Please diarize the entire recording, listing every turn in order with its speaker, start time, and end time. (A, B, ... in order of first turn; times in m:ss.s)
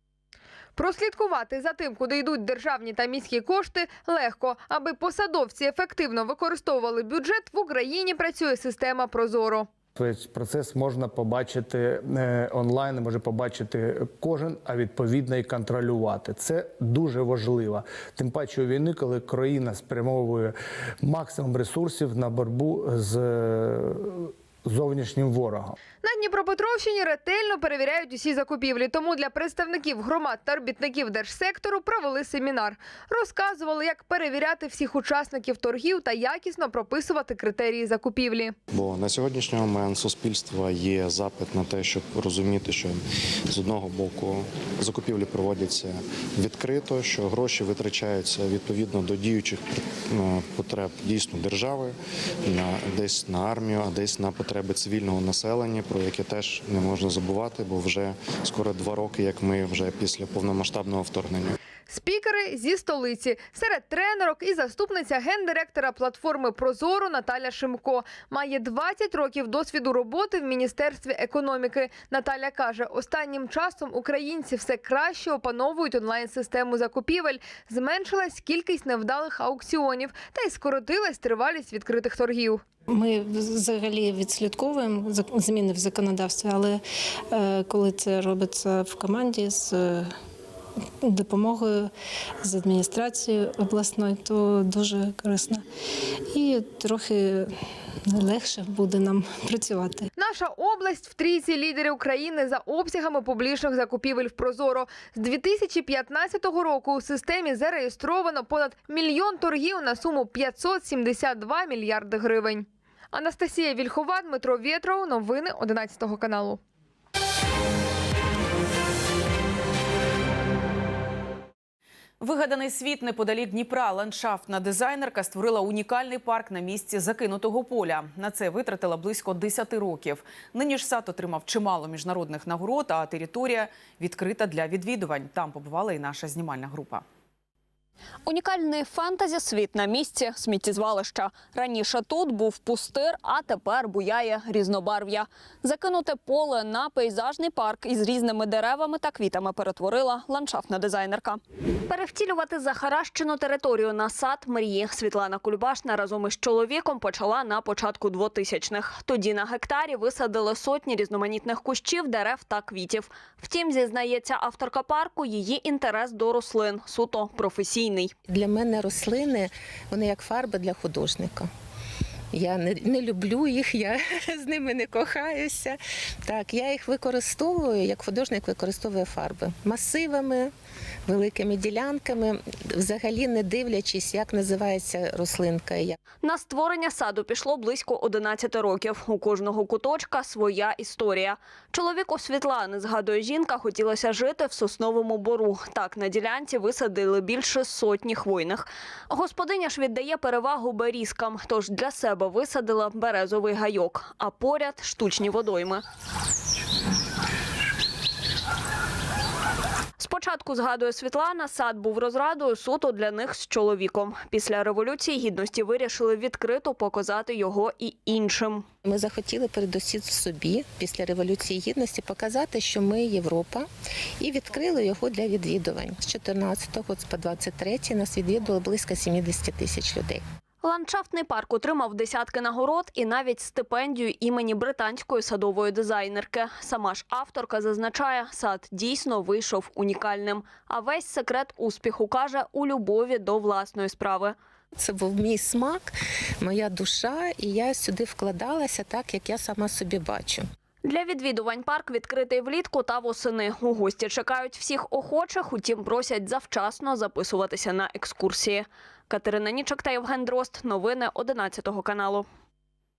0:00.8-0:09.7 A
0:10.0-0:25.8 B
0:26.0-0:38.5 A
0:38.7-1:01.6 C
1:01.9-1:22.6 A
1:22.9-1:30.1 D
1:31.0-1:31.9 D
1:32.4-1:35.6 D
1:36.3-1:37.5 D
1:38.0-1:40.1 D
1:40.2-1:56.6 A
2:02.2-2:17.0 E
2:18.2-2:48.1 F
2:48.3-2:51.5 G
2:52.3-3:00.5 G
3:01.1-3:06.0 G
3:06.2-3:25.8 F
3:30.0-3:38.6 F
3:38.8-3:43.7 G
3:44.2-3:50.2 G
3:50.6-4:04.3 F
4:04.8-4:10.4 G
4:10.8-4:22.2 F